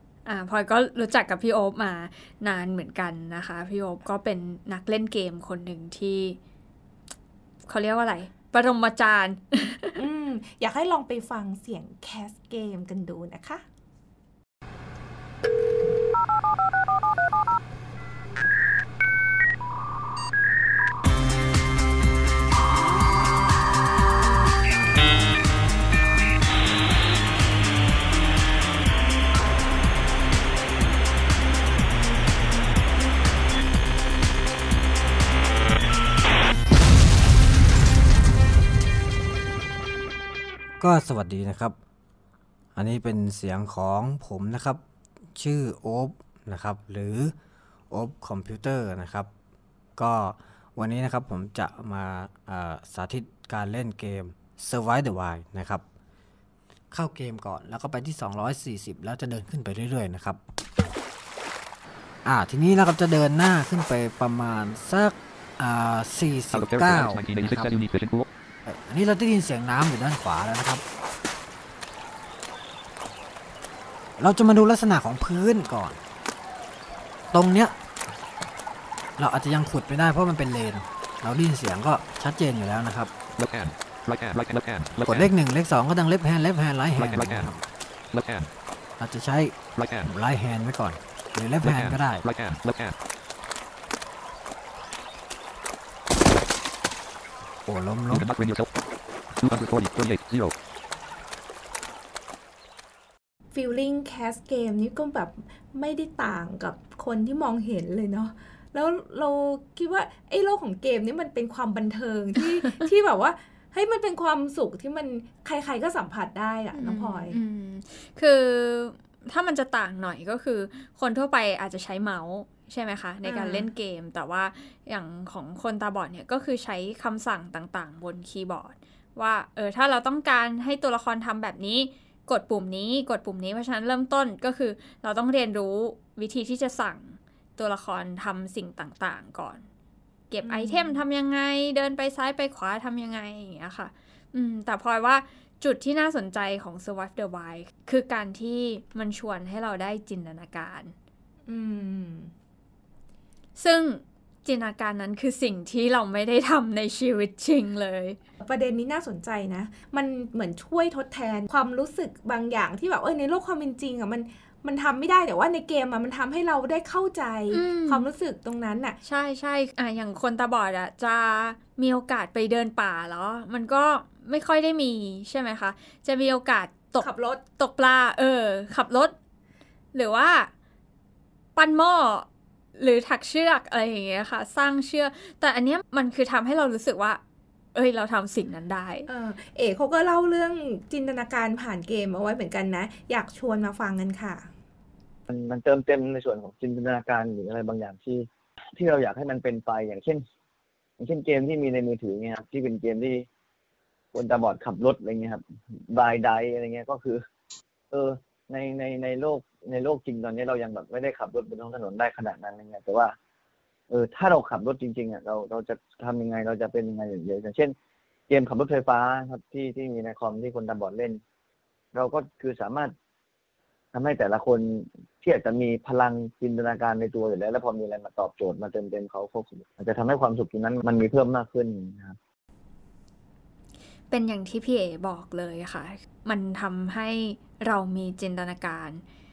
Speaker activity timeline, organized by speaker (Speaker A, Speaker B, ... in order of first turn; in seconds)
Speaker A: 0.2-6.4, 7.7-9.9, 116.7-139.7, 140.3-150.9, 153.6-158.2, 167.5-168.1, 169.0-179.2, 179.9-180.5, 181.6-182.3, 182.8-187.2, 187.7-189.1, 234.1-239.0
Speaker B: 9.9-13.6, 103.5-117.4, 123.2-123.7, 140.4-141.0, 151.5-152.3, 158.4-169.0, 177.0-177.4, 189.1-194.5
Speaker C: 40.8-41.8, 42.7-44.8, 45.3-47.3, 47.9-49.3, 50.0-55.8, 56.9-60.4, 62.2-67.8, 68.7-70.8, 74.2-76.0, 77.3-77.7, 79.2-83.1, 85.0-87.6, 89.0-92.2, 97.7-98.3
Speaker D: 66.5-68.3, 83.4-85.3, 86.9-87.5, 88.1-88.5, 89.7-90.1, 91.6-92.9, 98.1-98.7, 99.4-100.5
Speaker E: 195.3-200.2, 201.0-203.2, 204.1-207.2, 207.9-213.2, 213.9-217.7, 218.3-221.2, 221.9-222.9, 223.9-232.2